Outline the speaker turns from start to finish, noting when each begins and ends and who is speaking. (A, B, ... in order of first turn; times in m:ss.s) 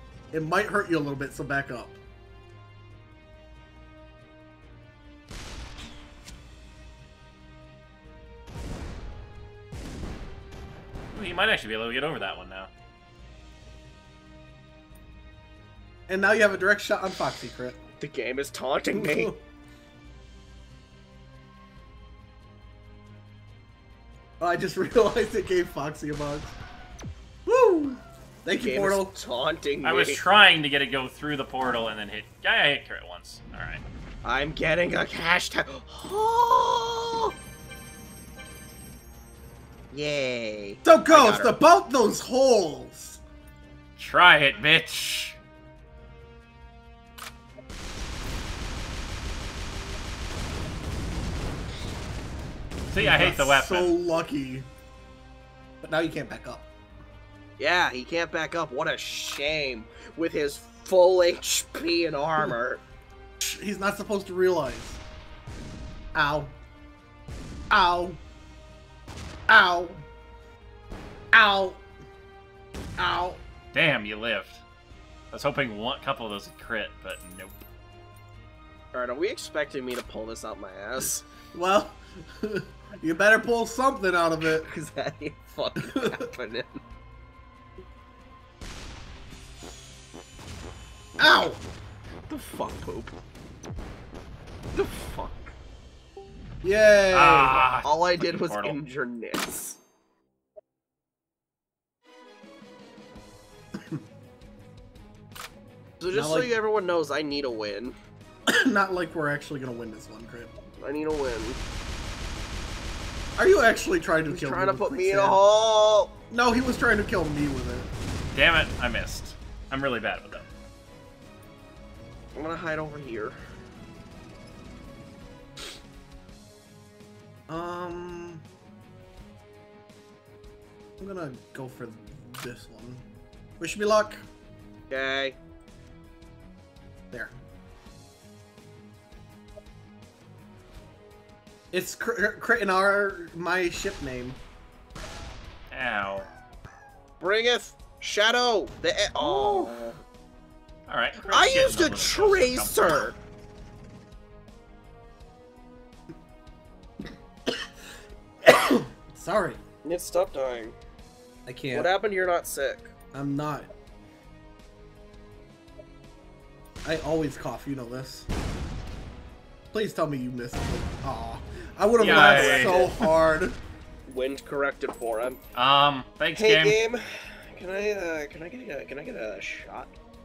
0:00.3-0:02.0 A
0:11.1-0:12.7 B
0:16.1-0:17.8 A
0:18.0-0:19.3 C
0:18.9-0:19.4 A
0:24.4-0:26.5 A
0:27.5-0:29.2 A
0:28.6-0:30.2 C
0:29.8-0:33.8 B
0:34.2-0:37.3 C
0:39.9-0:41.6 C
0:40.8-0:43.2 A
0:44.0-0:45.4 B
0:52.9-0:54.0 B
0:53.0-0:54.7 A
0:55.8-0:56.7 A
0:57.6-1:02.8 C
1:03.4-1:05.0 A
1:06.1-1:06.5 A
1:07.7-1:08.2 A
1:09.5-1:10.0 A
1:11.3-1:11.8 A
1:13.0-1:13.4 A
1:13.7-1:14.6 B
1:15.3-1:17.6 B
1:18.9-1:21.2 C
1:21.5-1:24.7 A
1:24.6-1:26.8 C
1:25.9-1:26.3 A
1:31.2-1:31.6 A
1:32.3-1:33.2 C
1:34.8-1:35.5 C
1:36.6-1:37.7 A
1:37.1-1:38.8 B
1:37.8-1:39.8 C
1:43.8-1:44.0 A
1:46.0-1:48.0 C
1:46.1-1:46.6 A
1:48.5-1:50.5 A
1:50.8-1:51.6 C
1:53.4-1:55.4 A
1:54.3-1:56.1 C
1:56.3-1:57.9 A
1:58.3-2:00.4 B
2:02.4-2:03.4 C
2:07.5-2:08.4 A
2:11.0-2:13.0 A
2:13.6-2:14.3 A
2:14.9-2:15.4 C
2:21.7-2:24.4 A
2:25.7-2:26.3 B
2:27.2-2:30.0 C
2:29.2-2:29.8 A
2:30.9-2:33.0 B
2:31.3-2:33.2 C
2:38.4-2:39.6 A
2:39.8-2:40.8 C
2:41.5-2:41.9 A
2:41.7-2:42.9 C
2:43.1-2:43.7 A
2:46.8-2:48.3 A
2:49.7-2:53.6 A
2:52.0-2:52.9 B
2:52.0-2:52.9 C
2:54.1-2:55.4 C
2:55.5-2:56.8 B
2:56.4-2:59.9 C